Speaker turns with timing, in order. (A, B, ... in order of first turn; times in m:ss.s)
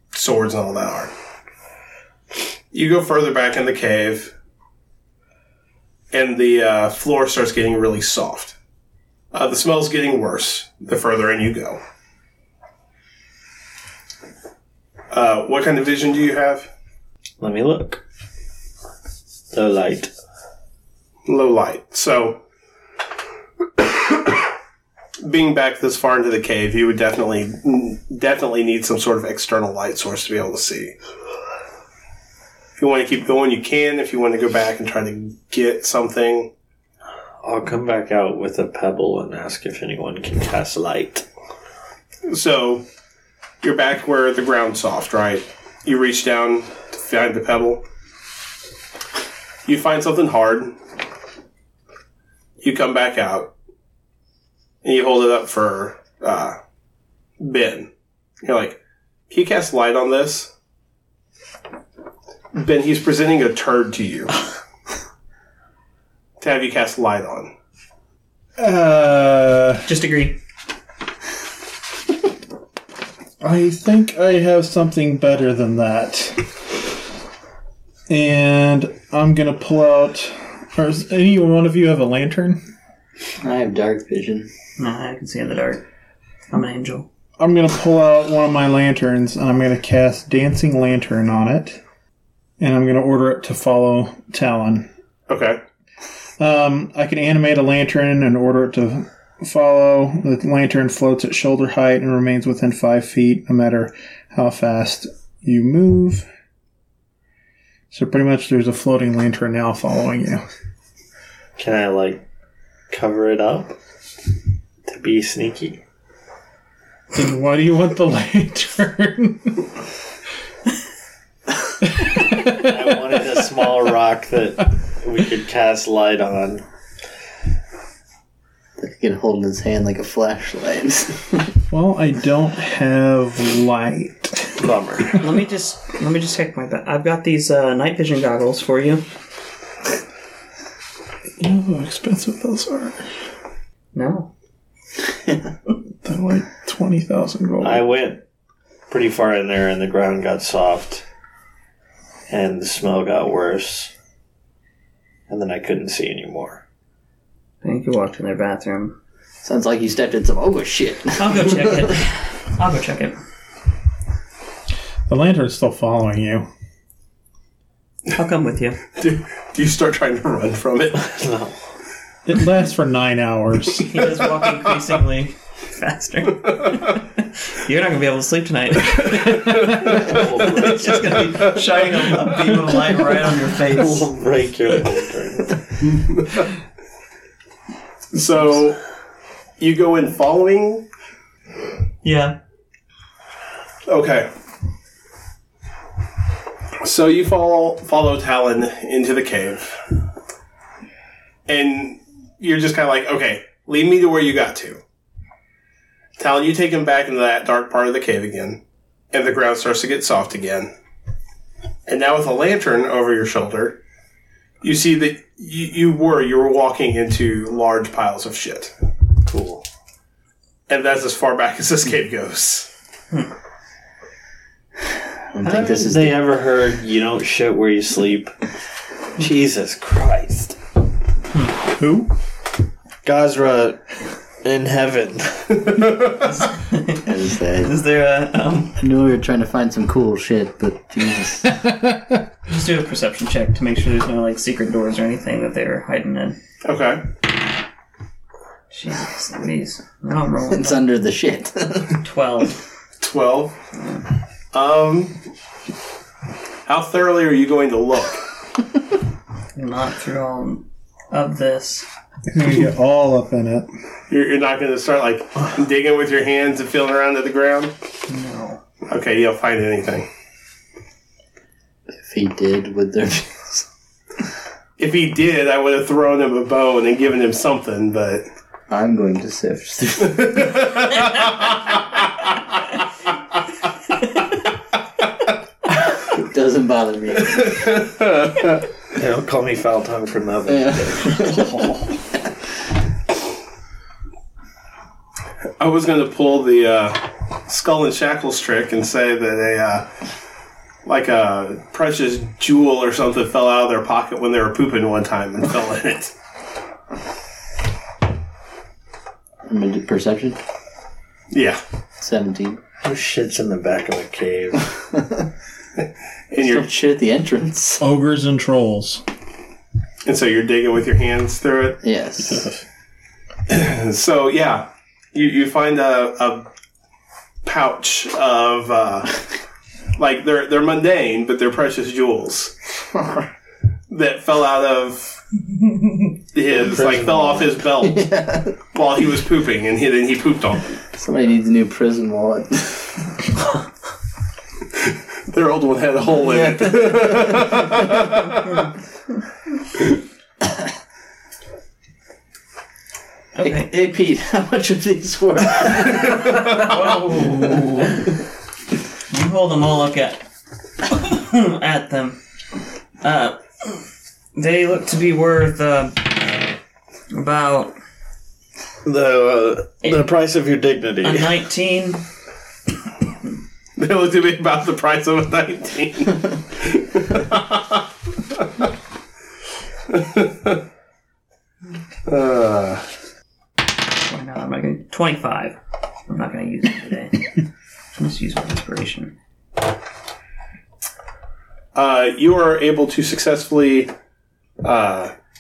0:00.1-0:01.1 A
0:02.7-0:04.3 A
0:06.1-0:08.6 A
0:09.3-0:11.8 A
0:15.1-0:16.7 A
0:17.4-0:18.0 B
0:19.5-0:20.1 B
0:21.3-0:22.4 A
0:23.8-0:24.3 A
0:25.2-0:31.0 A
0:32.8-0:36.5 A
0:37.4-0:41.3 B
0:42.3-0:42.9 A
0:43.6-0:47.8 A
0:49.7-0:50.8 A
0:52.6-0:53.5 A
0:54.8-0:56.6 A
0:57.4-0:57.9 A
0:58.4-0:58.8 A
0:59.3-1:00.5 A
1:02.5-1:04.4 A
1:06.4-1:07.5 A
1:08.6-1:09.8 C
1:09.9-1:10.4 D
1:13.4-1:16.5 C
1:18.1-1:22.6 C
1:23.4-1:24.5 E
1:24.8-1:25.8 D
1:26.5-1:27.1 D
1:27.4-1:31.8 C
1:32.6-1:34.9 C
1:35.3-1:35.6 A
1:36.4-1:46.3 C
1:47.9-1:50.4 C
1:51.6-1:52.2 B
1:52.9-1:53.8 B
1:54.9-1:55.8 B
1:57.1-1:59.7 C
2:01.8-2:02.7 C
2:02.5-2:06.6 B
2:08.8-2:11.5 E
2:11.7-2:14.6 C
2:14.6-2:15.2 B
2:15.2-2:19.0 D
2:21.4-2:23.0 C
2:23.9-2:24.3 D
2:26.0-2:27.9 C
2:27.6-2:28.2 B
2:28.9-2:31.0 B
2:32.3-2:33.9 B
2:35.3-2:36.6 B
2:37.6-2:39.0 D
2:39.4-2:41.9 E
2:41.2-2:43.2 D
2:45.1-2:46.5 C
2:48.1-2:48.8 D
2:49.0-2:51.0 A
2:51.0-2:51.6 B
2:52.3-2:53.9 C
2:53.8-3:04.0 D
2:59.6-3:00.0 C
2:59.8-3:01.5 B
3:03.7-3:05.7 B
3:05.8-3:06.5 A
3:08.1-3:08.8 A
3:09.6-3:10.9 A
3:12.0-3:12.4 D
3:13.9-3:14.3 A
3:16.8-3:19.8 A
3:21.5-3:24.8 A
3:26.2-3:28.6 A
3:29.1-3:30.7 A
3:31.9-3:33.8 A
3:34.6-3:38.7 A
3:39.3-3:39.6 B
3:40.7-3:42.7 A
3:45.3-3:46.3 E
3:45.4-3:48.3 B
3:49.2-3:50.6 B
3:51.8-3:52.1 C
3:53.0-3:56.0 B
3:56.2-3:57.1 D
3:57.1-3:57.7 E
3:57.6-3:58.8 D
3:58.8-4:01.6 E
4:01.6-4:02.1 C
4:02.5-4:06.4 D
4:06.6-4:07.0 A
4:08.7-4:10.9 D
4:10.5-4:12.0 E
4:12.0-4:12.6 D
4:13.0-4:13.6 A
4:13.8-4:14.0 D
4:14.5-4:15.2 A
4:16.7-4:18.2 A
4:19.6-4:21.9 D
4:22.3-4:23.7 C
4:24.1-4:27.7 A
4:28.1-4:28.6 D
4:28.9-4:30.1 A
4:31.9-4:33.7 E
4:34.8-4:38.3 A
4:38.7-4:40.7 E
4:40.0-4:41.5 A
4:45.9-4:47.8 E
4:47.7-4:48.3 A
4:49.0-4:51.5 B
4:50.5-4:51.7 E
4:55.6-4:59.9 A
5:00.8-5:06.1 A
5:09.5-5:10.4 E
5:11.3-5:11.6 A
5:12.0-5:12.6 E
5:12.8-5:14.8 B
5:15.0-5:15.2 E
5:15.8-5:16.7 A
5:16.4-5:17.8 E
5:17.8-5:19.0 C
5:20.0-5:21.8 A
5:21.8-5:22.5 E
5:23.5-5:26.5 A
5:27.4-5:29.2 A
5:30.0-5:32.6 A
5:33.0-5:33.2 E
5:33.9-5:35.2 A
5:36.3-5:38.1 A
5:36.5-5:38.6 E
5:38.7-5:40.7 A
5:40.9-5:42.9 E
5:45.3-5:48.6 A
5:46.2-5:47.3 E
5:53.4-5:53.7 D
5:53.4-5:56.6 E
5:56.4-5:58.0 D
5:59.1-6:00.2 D
6:00.9-6:02.2 D
6:03.0-6:06.4 D
6:07.1-6:07.7 D
6:08.8-6:11.4 B
6:09.8-6:10.1 D
6:11.0-6:12.0 D
6:13.8-6:17.9 A
6:19.9-6:20.6 A
6:22.1-6:22.8 A
6:24.0-6:27.3 D
6:28.0-6:29.2 D
6:31.8-6:33.9 A
6:34.6-6:35.1 A